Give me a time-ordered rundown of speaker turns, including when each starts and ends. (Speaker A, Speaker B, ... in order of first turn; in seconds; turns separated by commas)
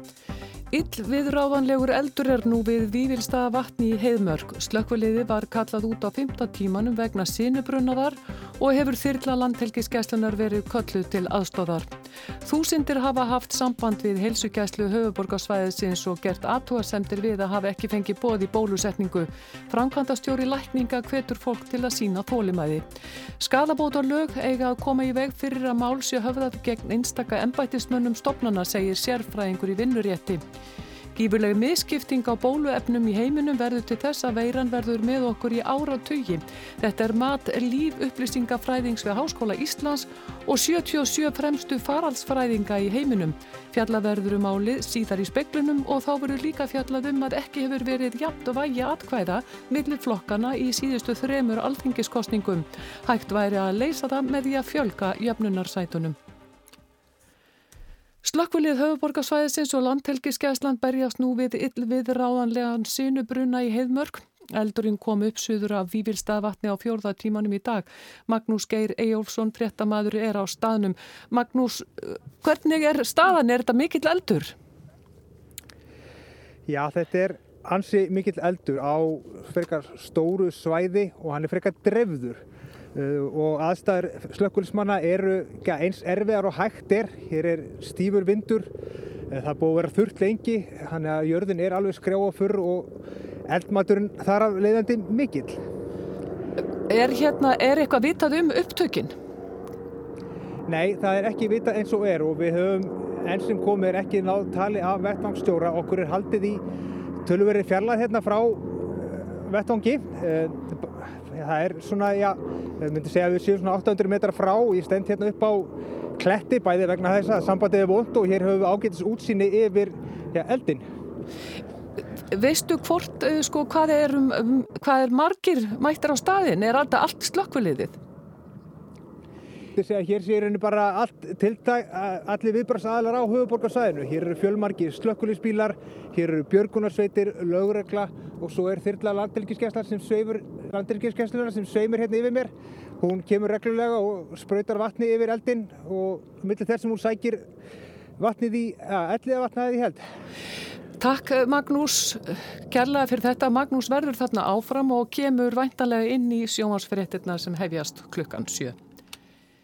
Speaker A: 0.7-11.9, Speaker A: 12.4-22.8, Speaker A: 23.4-30.4, Speaker A: 31.1-56.2, Speaker A: 58.2-74.5, Speaker B: 76.7-82.4, Speaker B: 82.9-88.7, Speaker B: 89.3-95.6, Speaker A: 96.9-99.1, Speaker B: 100.7-106.6, Speaker B: 107.2-120.8, Speaker A: 122.3-128.0, Speaker B: 129.7-147.4, Speaker B: 148.2-150.0, Speaker A: 151.0-158.7